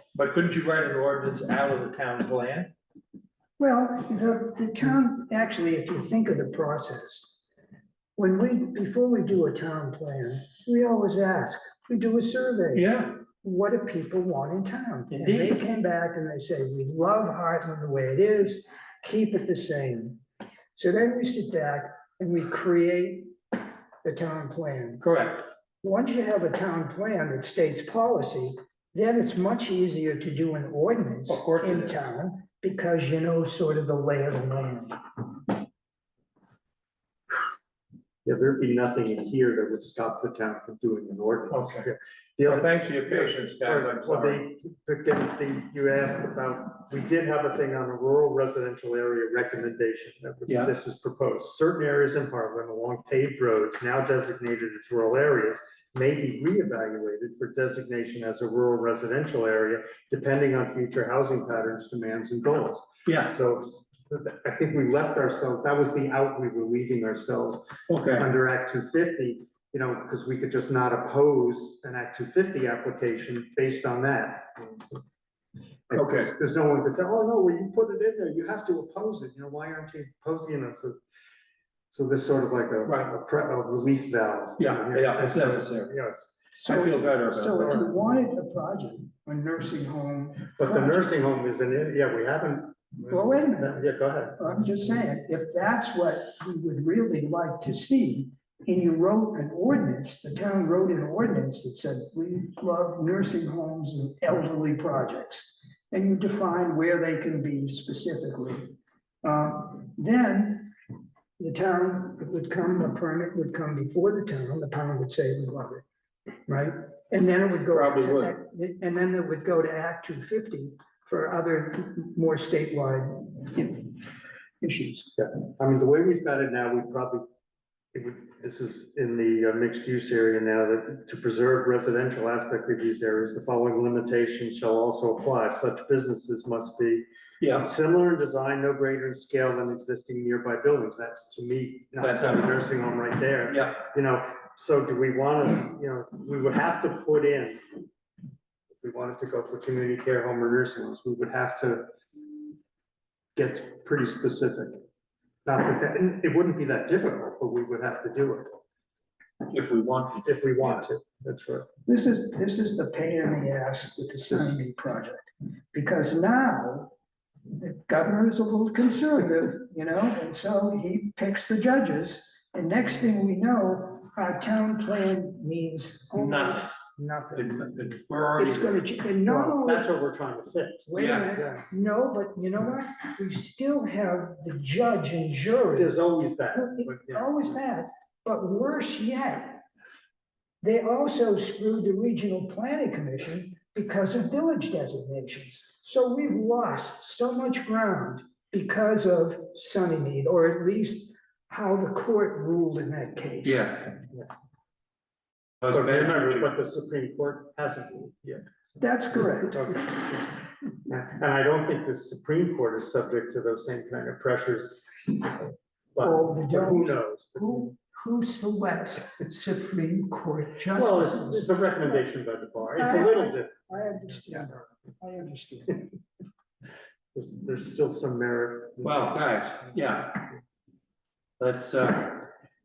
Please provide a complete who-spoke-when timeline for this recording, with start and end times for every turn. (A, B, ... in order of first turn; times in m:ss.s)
0:00.2-0:02.7 A
0:03.6-0:07.4 B
0:08.2-0:20.2 B
0:12.7-0:13.2 A
0:15.1-0:15.6 A
0:20.7-0:23.3 B
0:24.0-0:25.0 B
0:25.0-0:25.5 A
0:25.8-0:35.0 B
0:31.3-0:32.0 A
0:38.2-1:15.0 C
0:41.5-0:41.8 A
0:42.4-0:44.4 A
1:03.0-1:03.3 A
1:07.9-1:08.3 A
1:15.9-1:21.0 C
1:15.9-1:16.3 A
1:21.9-1:26.3 C
1:22.9-1:23.1 A
1:24.6-1:25.9 A
1:26.6-1:31.2 B
1:26.7-1:27.8 A
1:27.6-1:27.9 C
1:30.5-1:34.4 C
1:33.1-1:33.8 B
1:34.4-1:50.8 B
1:51.4-1:55.8 B
1:56.5-2:04.0 B
1:57.7-1:58.4 A
2:04.6-2:05.1 B
2:05.2-2:07.2 C
2:07.9-2:27.6 C
2:17.4-2:17.7 A
2:22.0-2:22.6 A
2:23.5-2:23.8 A
2:28.8-2:31.9 C
2:33.4-2:34.8 C
2:35.4-2:38.6 C
2:39.5-2:40.3 A
2:40.2-2:41.7 C
2:41.9-2:46.9 B
2:44.3-2:44.6 C
2:47.6-2:57.6 B
2:56.1-2:56.7 A
2:57.4-2:58.8 A
2:58.4-2:59.9 B
2:59.2-3:01.7 C
3:00.9-3:05.9 B
3:01.0-3:01.3 A
3:05.8-3:07.6 C
3:06.5-3:09.6 B
3:10.6-3:23.9 B
3:23.4-3:23.8 A
3:25.6-3:26.2 A
3:25.6-3:30.2 C
3:28.8-3:29.8 B
3:30.9-3:37.7 C
3:36.0-3:42.0 B
3:40.7-3:43.5 C
3:42.8-3:45.9 B
3:47.1-3:49.1 C
3:48.8-3:50.3 A
3:51.4-3:52.3 A